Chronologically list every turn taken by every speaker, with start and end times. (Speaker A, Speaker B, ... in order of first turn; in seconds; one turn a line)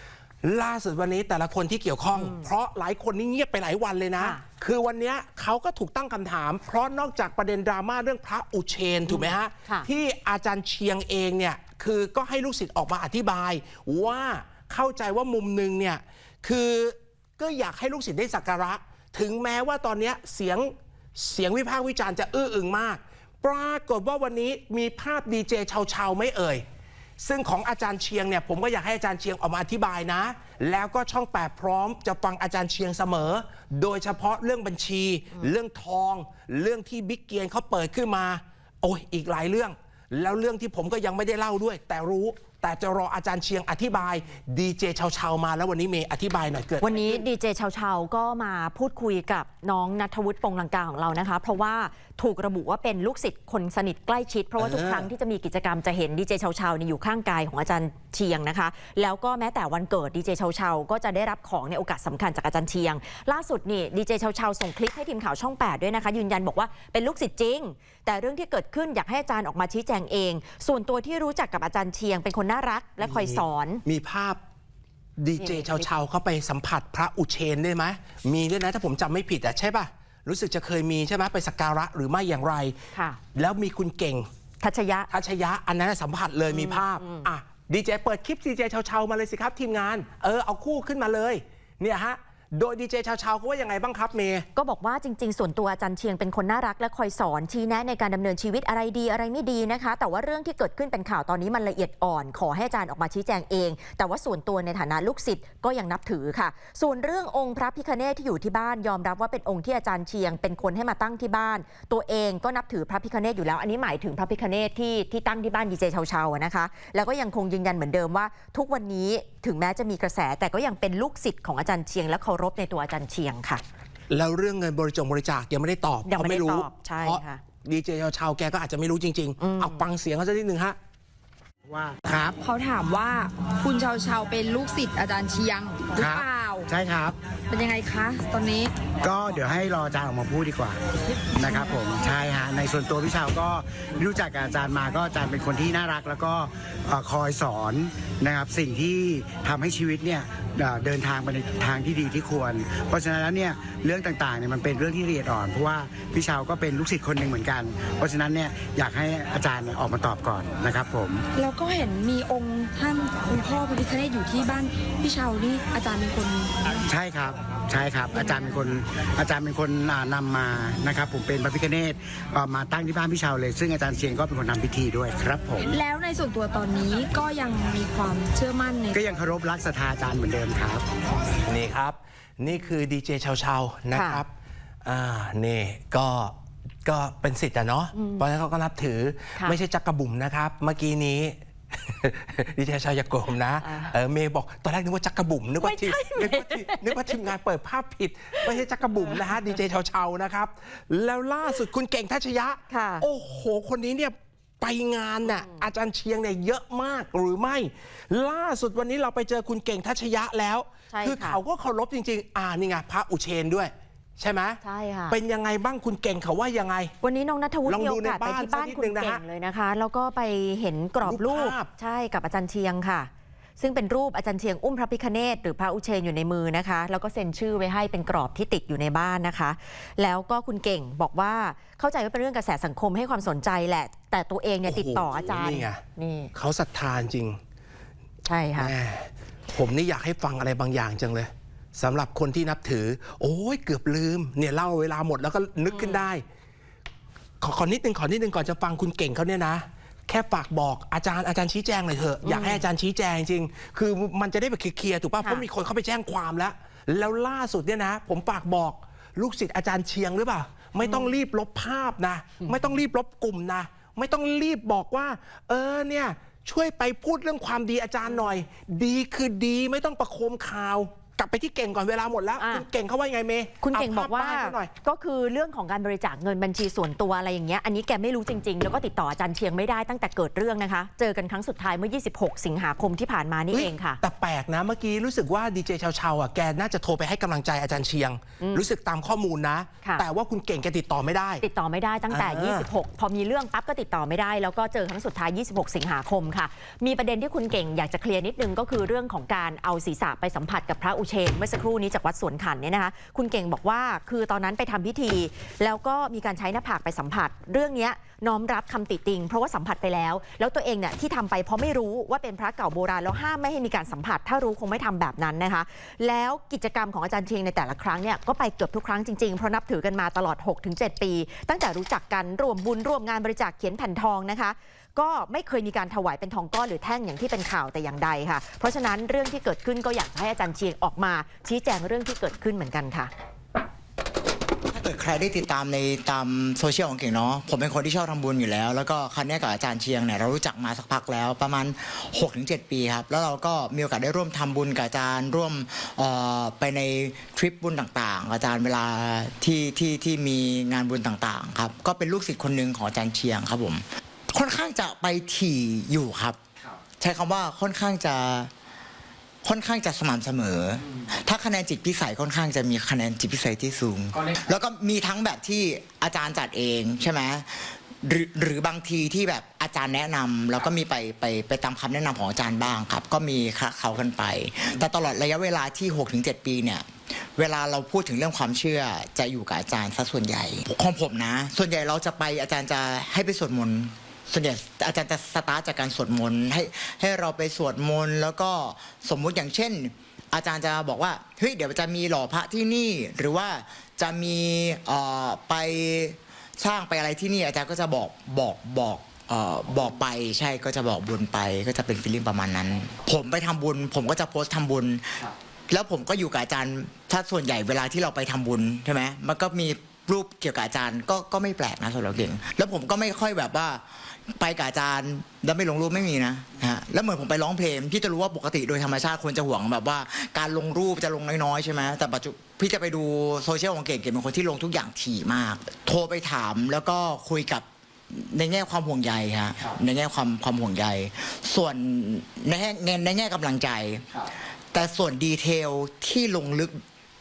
Speaker A: 0.4-26.6
Speaker B: 2.1-2.5
Speaker B: 9.1-9.9
Speaker A: 27.2-47.2
Speaker B: 46.8-73.8
Speaker A: 54.6-55.1
Speaker A: 73.0-74.4
Speaker A: 75.2-82.8
Speaker B: 75.4-75.8
Speaker B: 82.9-83.2
Speaker A: 83.3-84.3
Speaker B: 84.6-85.1
Speaker A: 85.1-94.5
Speaker B: 86.5-87.3
Speaker B: 94.5-123.6
Speaker A: 124.1-130.8
Speaker B: 126.0-127.4
Speaker B: 129.4-129.9
Speaker C: 131.6-132.4
Speaker D: 132.4-136.7
Speaker C: 135.9-137.2
Speaker D: 137.5-138.8
Speaker C: 139.0-140.8
Speaker C: 141.3-161.2
Speaker D: 161.3-166.5
Speaker C: 166.8-175.7
Speaker D: 168.1-168.6
Speaker D: 175.7-179.0
Speaker C: 178.9-180.8
Speaker A: 181.4-184.3
Speaker B: 183.9-184.2
Speaker A: 184.8-216.9
Speaker B: 187.9-188.2
Speaker B: 193.6-193.9
Speaker B: 195.6-197.1
Speaker B: 202.7-203.1
Speaker B: 205.2-205.7
Speaker B: 210.9-211.4
Speaker B: 214.6-215.2
Speaker B: 217.0-236.3
Speaker A: 217.7-219.2
Speaker A: 221.0-221.7
Speaker A: 234.6-235.8
Speaker A: 236.3-237.4
Speaker B: 238.2-238.7
Speaker A: 238.6-246.2
Speaker B: 245.7-246.0
Speaker A: 247.4-274.7
Speaker B: 252.2-252.6
Speaker B: 260.8-261.1
Speaker B: 268.1-268.4
Speaker B: 272.4-272.6
Speaker B: 273.6-284.0
Speaker A: 283.5-291.4
Speaker B: 288.4-288.7
Speaker B: 291.4-333.1
Speaker A: 292.1-292.7
Speaker E: 334.7-356.4
Speaker E: 357.0-358.5
Speaker E: 359.4-413.8
Speaker E: 414.4-436.8